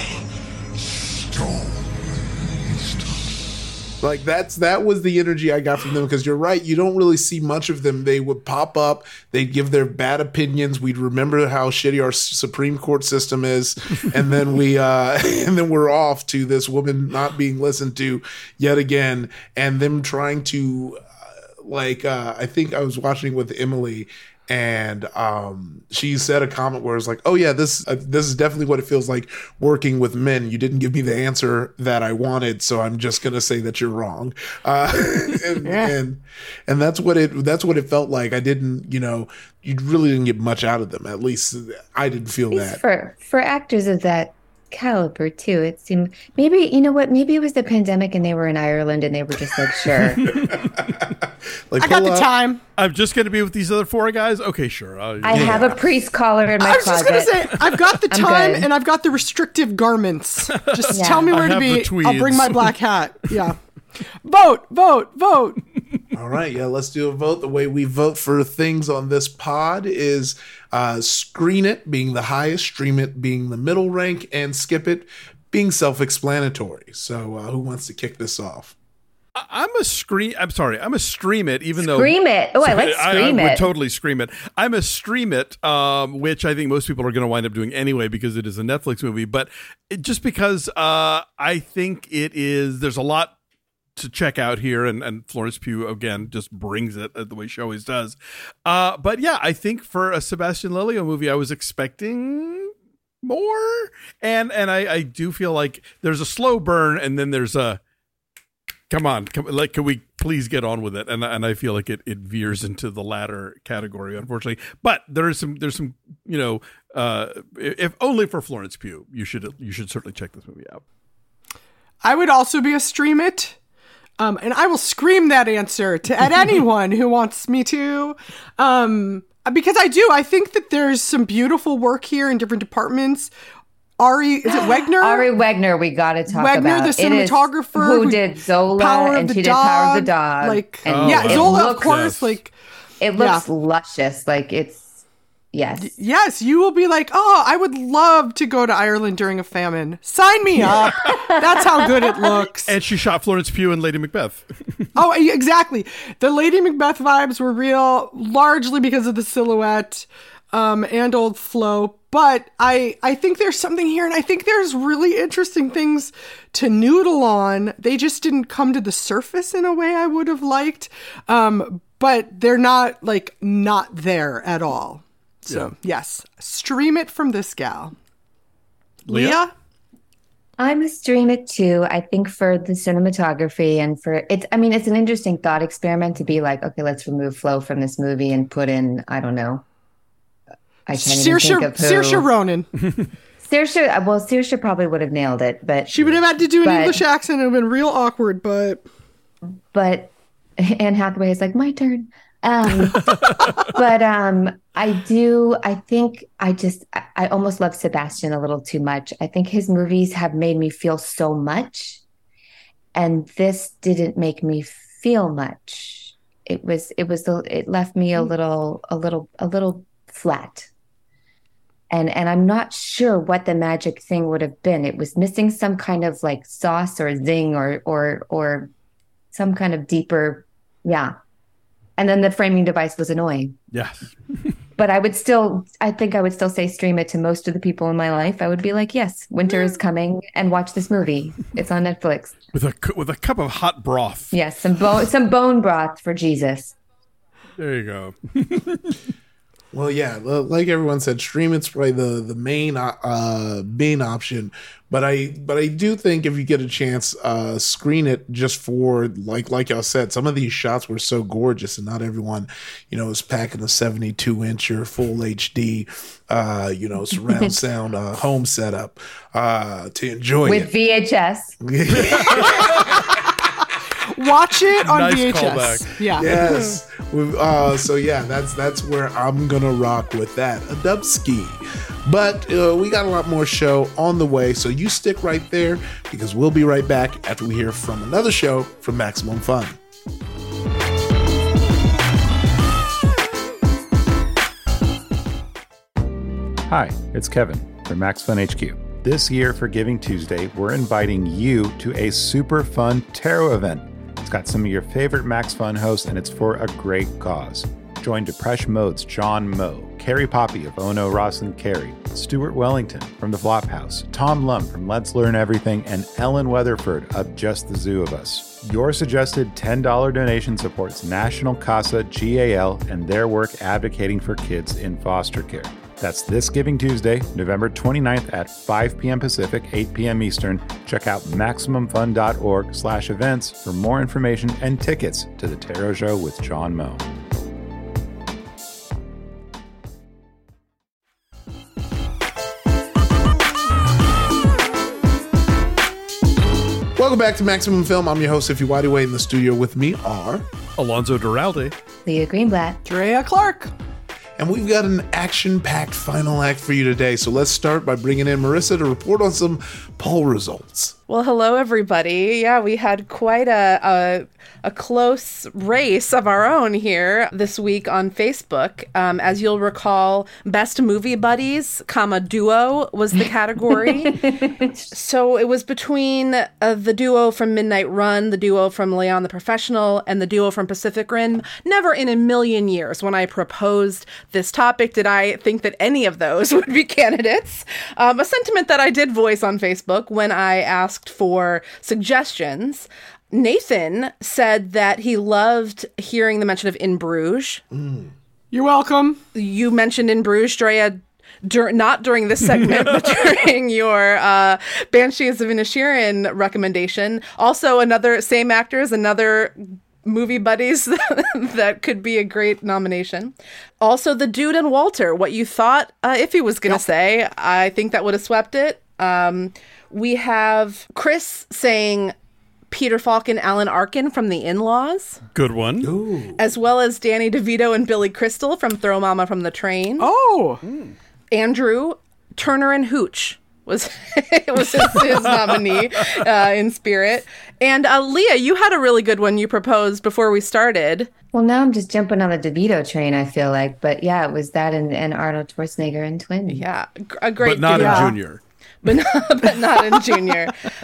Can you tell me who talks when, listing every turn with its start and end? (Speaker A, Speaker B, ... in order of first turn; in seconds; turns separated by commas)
Speaker A: 4.0-21.0, Speaker A: 21.6-42.8, Speaker B: 35.6-36.0, Speaker C: 42.5-50.3, Speaker D: 50.2-50.7, Speaker A: 50.2-52.3, Speaker B: 51.8-52.6, Speaker D: 52.8-55.8, Speaker C: 55.2-57.4, Speaker A: 55.3-55.8, Speaker B: 56.6-63.6, Speaker C: 58.1-58.7, Speaker D: 60.5-62.8, Speaker C: 60.9-61.3, Speaker B: 64.2-65.6, Speaker A: 66.1-78.8, Speaker D: 79.4-93.3, Speaker C: 81.8-83.7, Speaker D: 94.0-102.7, Speaker D: 103.2-107.8, Speaker D: 108.9-120.8, Speaker B: 122.0-123.6, Speaker B: 124.2-133.3, Speaker B: 134.0-135.3, Speaker C: 134.4-142.0, Speaker B: 136.3-138.2, Speaker B: 138.8-142.5, Speaker D: 140.9-142.4, Speaker C: 143.0-145.0, Speaker B: 143.2-143.4, Speaker C: 145.5-145.9, Speaker B: 145.8-152.7, Speaker C: 151.0-151.3, Speaker D: 152.7-154.9, Speaker B: 154.9-177.9, Speaker D: 179.1-179.4, Speaker B: 179.1-179.5, Speaker C: 180.6-189.6, Speaker C: 190.9-192.3, Speaker B: 190.9-192.7, Speaker C: 193.4-195.9, Speaker B: 195.9-198.8, Speaker C: 196.6-197.0, Speaker C: 199.7-203.1, Speaker C: 203.7-212.0, Speaker C: 212.9-220.7, Speaker C: 221.9-228.7, Speaker C: 229.3-231.2, Speaker C: 232.0-233.6, Speaker D: 233.7-234.5, Speaker C: 234.8-242.3, Speaker D: 242.5-244.3, Speaker C: 244.3-246.8, Speaker D: 247.6-249.0, Speaker A: 249.7-270.7, Speaker C: 270.4-271.6, Speaker A: 271.6-273.0, Speaker D: 272.0-272.6, Speaker B: 274.1-276.3, Speaker D: 274.8-276.8, Speaker A: 276.2-289.8, Speaker E: 296.7-337.1, Speaker A: 347.0-350.5, Speaker D: 350.8-351.7, Speaker C: 352.1-352.8, Speaker B: 352.9-353.7, Speaker A: 354.4-360.9, Speaker F: 361.1-374.3, Speaker C: 373.9-374.6, Speaker F: 374.9-397.6, Speaker A: 397.7-398.1, Speaker B: 398.5-399.2, Speaker F: 399.4-422.1, Speaker F: 422.7-425.2, Speaker D: 425.3-425.9, Speaker A: 425.8-426.4, Speaker F: 426.4-430.1, Speaker B: 430.0-430.6, Speaker D: 430.7-430.9, Speaker F: 431.3-441.1, Speaker D: 435.0-436.2, Speaker C: 441.3-446.6, Speaker F: 446.5-448.2, Speaker D: 447.4-448.4, Speaker B: 447.7-448.1, Speaker F: 448.8-450.5, Speaker B: 449.4-450.4